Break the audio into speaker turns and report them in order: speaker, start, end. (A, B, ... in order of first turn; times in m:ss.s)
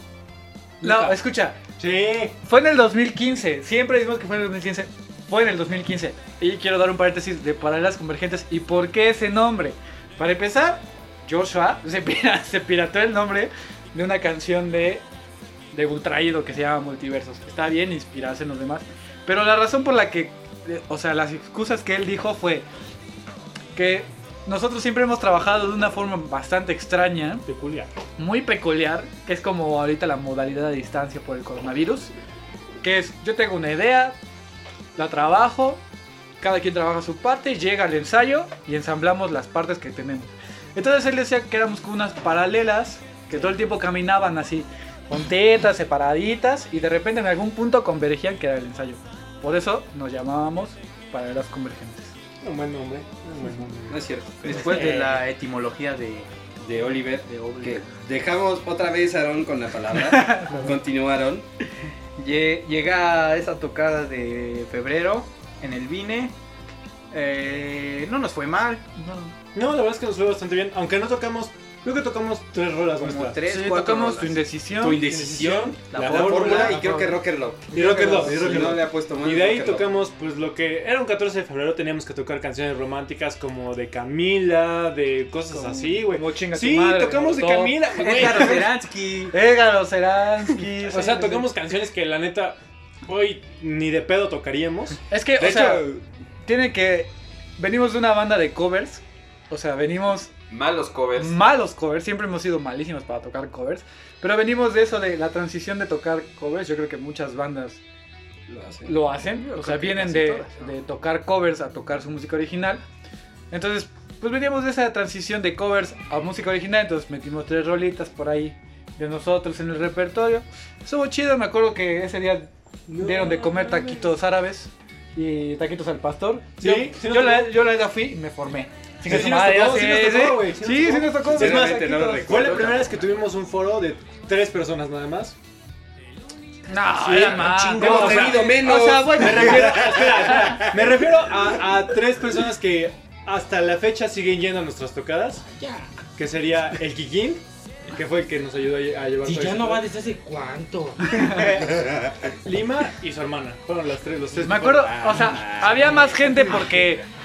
0:00.8-0:01.1 A
0:00.8-0:01.6 B
0:01.8-0:02.3 A
0:02.4-0:15.0 B
0:15.7-0:22.6 B
0:23.8-0:27.4 B
0:27.5-0:27.9 A
0:28.2-0:32.1 B
0:32.8-0:34.2 B
0:35.0-0:35.8 B
0:36.4-0:52.1 B
0:52.4-0:54.0 A
0:53.9-0:55.0 C
0:54.4-0:56.3 D
0:54.5-0:55.0 B
0:54.7-0:55.0 A
0:56.6-1:01.5 C
0:57.2-0:57.8 D
1:00.1-1:00.7 B
1:02.2-1:06.3 D
1:07.1-1:08.8 D
1:09.0-1:09.3 B
1:09.5-1:13.4 A
1:13.0-1:14.4 D
1:13.5-1:15.0 B
1:14.8-1:19.9 C
1:14.8-1:16.8 A
1:15.9-1:17.2 D
1:17.7-1:18.7 B
1:17.7-1:28.7 A
1:25.5-1:28.6 B
1:28.0-1:29.4 D
1:29.3-1:31.5 B
1:30.9-1:35.0 A
1:35.1-1:35.9 B
1:35.4-1:36.0 C
1:36.4-1:40.3 B
1:40.5-1:41.4 C
1:41.2-1:47.8 B
1:48.5-1:49.0 C
1:48.9-1:52.8 B
1:49.3-1:50.7 D
1:53.5-2:12.4 B
2:02.9-2:04.1 A
2:06.6-2:07.5 A
2:09.1-2:15.4 A
2:11.3-2:13.0 C
2:16.7-2:20.6 B
2:17.0-2:25.4 A
2:17.7-2:21.0 C
2:25.6-2:25.9 E
2:26.2-2:29.9 A
2:29.2-2:31.6 E
2:31.1-2:31.5 B
2:31.6-2:32.1 C
2:32.4-2:35.4 A
2:34.4-2:37.0 B
2:34.5-2:36.1 C